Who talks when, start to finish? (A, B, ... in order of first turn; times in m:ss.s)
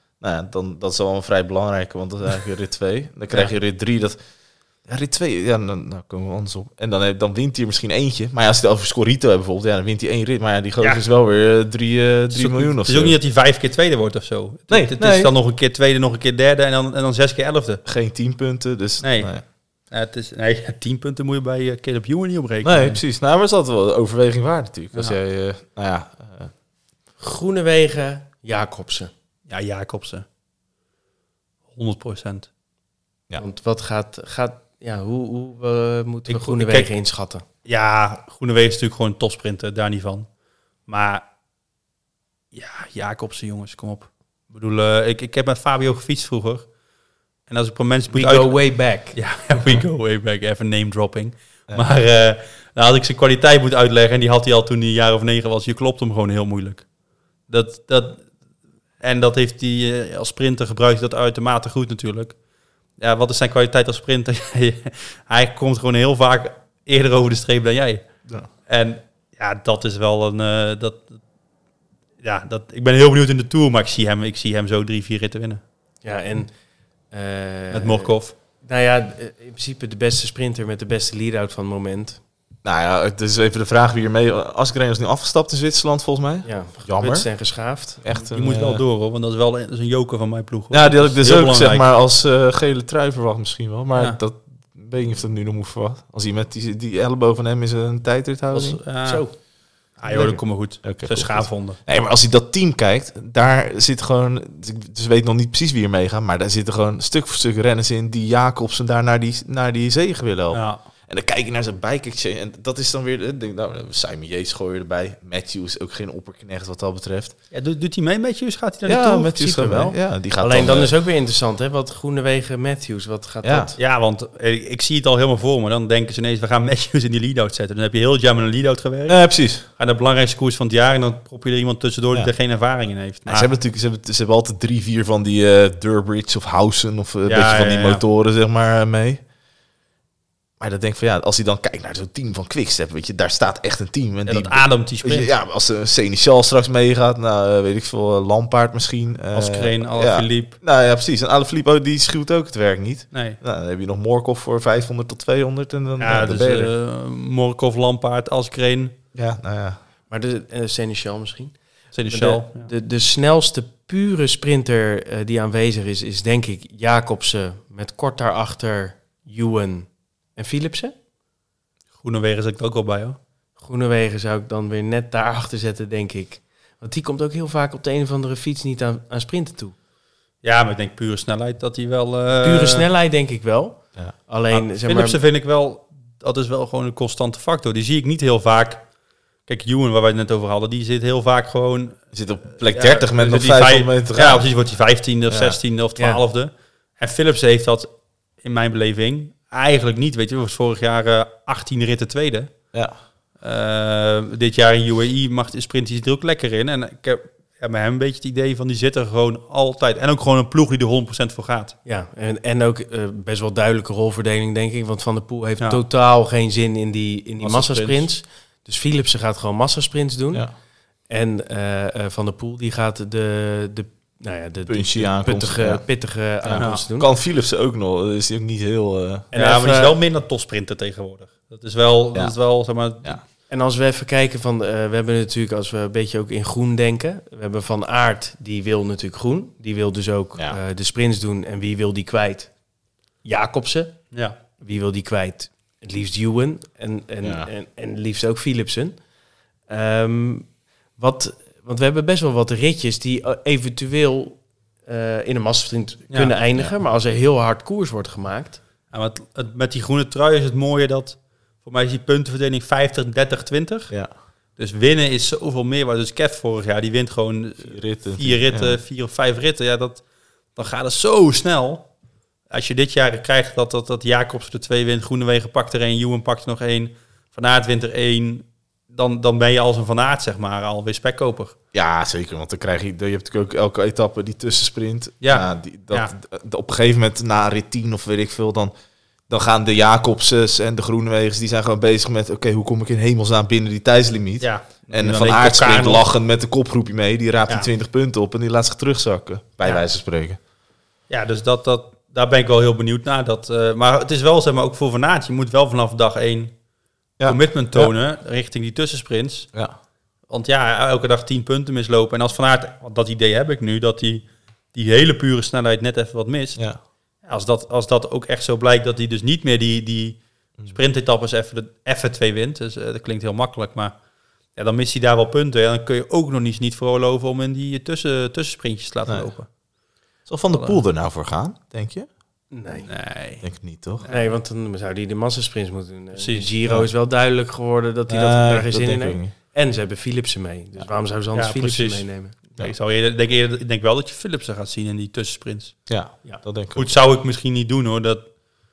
0:00.2-0:04.2 A
0:04.8-0:13.2 A
0:12.3-0:17.8 B
0:14.7-0:15.3 A
0:17.8-0:19.4 A
0:19.0-0:19.3 B
0:19.9-0:23.0 B
0:22.6-0:26.5 A
0:27.2-0:29.1 C
0:29.5-0:30.2 B
0:31.7-0:32.5 B
0:33.4-0:37.4 C
0:36.3-0:36.9 B
0:37.6-0:40.3 B
0:40.9-0:41.2 B
0:42.5-0:46.7 B
0:47.5-0:56.9 B
0:48.1-0:49.2 C
0:57.5-0:58.3 B
0:59.0-1:02.4 B
1:03.0-1:08.0 B
1:08.7-1:11.2 B
1:12.2-1:15.6 B
1:16.0-1:16.5 C
1:17.1-1:22.2 C
1:17.7-1:18.3 B
1:22.6-1:27.3 A
1:26.4-1:28.0 C
1:28.0-1:28.8 A
1:28.3-1:31.8 B
1:30.7-1:38.8 A
1:38.5-1:39.2 B
1:39.0-1:39.3 C
1:40.0-1:41.8 B
1:40.0-1:57.3 A
1:50.5-1:50.8 B
1:57.5-1:59.7 B
1:58.8-2:00.9 A
1:59.4-2:03.8 C
2:03.4-2:03.7 A
2:03.8-2:13.5 B
2:09.1-2:09.6 A
2:13.2-2:19.2 A
2:17.3-2:18.0 B
2:20.6-2:36.7 A
2:24.2-2:25.3 B
2:29.3-2:30.5 B
2:33.1-2:33.4 B
2:36.0-2:38.9 B
2:39.1-2:39.8 A
2:40.1-2:50.9 C
2:41.9-2:42.7 B
2:52.0-2:53.2 B
2:53.6-2:59.7 C
3:00.4-3:02.8 B
3:02.4-3:05.2 C
3:04.5-3:08.8 B
3:09.4-3:12.0 B
3:12.1-3:14.5 A
3:12.7-3:17.9 B
3:15.3-3:15.6 A
3:18.4-3:22.5 B
3:23.4-3:31.8 B
3:31.8-3:40.5 C
3:37.4-3:38.1 B
3:41.1-3:47.1 C
3:44.7-3:45.8 A
3:46.4-3:49.3 A
3:46.6-3:46.8 B
3:49.3-3:53.2 B
3:49.3-3:49.9 C
3:53.5-4:02.5 C
4:03.2-4:04.0 C
4:04.6-4:09.0 C
4:07.2-4:07.5 A
4:09.7-4:18.6 C
4:18.9-4:24.0 B
4:24.6-4:30.0 B
4:27.6-4:28.8 A
4:30.5-4:31.9 B
4:32.5-4:41.5 B
4:41.7-4:48.7 A
4:45.2-4:46.1 B
4:49.3-5:00.4 A
4:54.4-4:56.0 B
5:01.1-5:06.5 B
5:07.2-5:07.9 A
5:07.2-5:09.5 B
5:10.3-5:16.6 B
5:17.3-5:24.0 B
5:24.5-5:29.5 B
5:30.2-5:32.1 A
5:30.5-5:30.8 B
5:32.5-5:32.9 C
5:32.9-5:33.4 B
5:33.4-5:34.0 A
5:34.1-5:42.3 C
5:36.1-5:36.5 B
5:38.1-5:39.3 A
5:41.3-5:45.8 B
5:45.9-5:47.0 A
5:46.7-5:48.3 B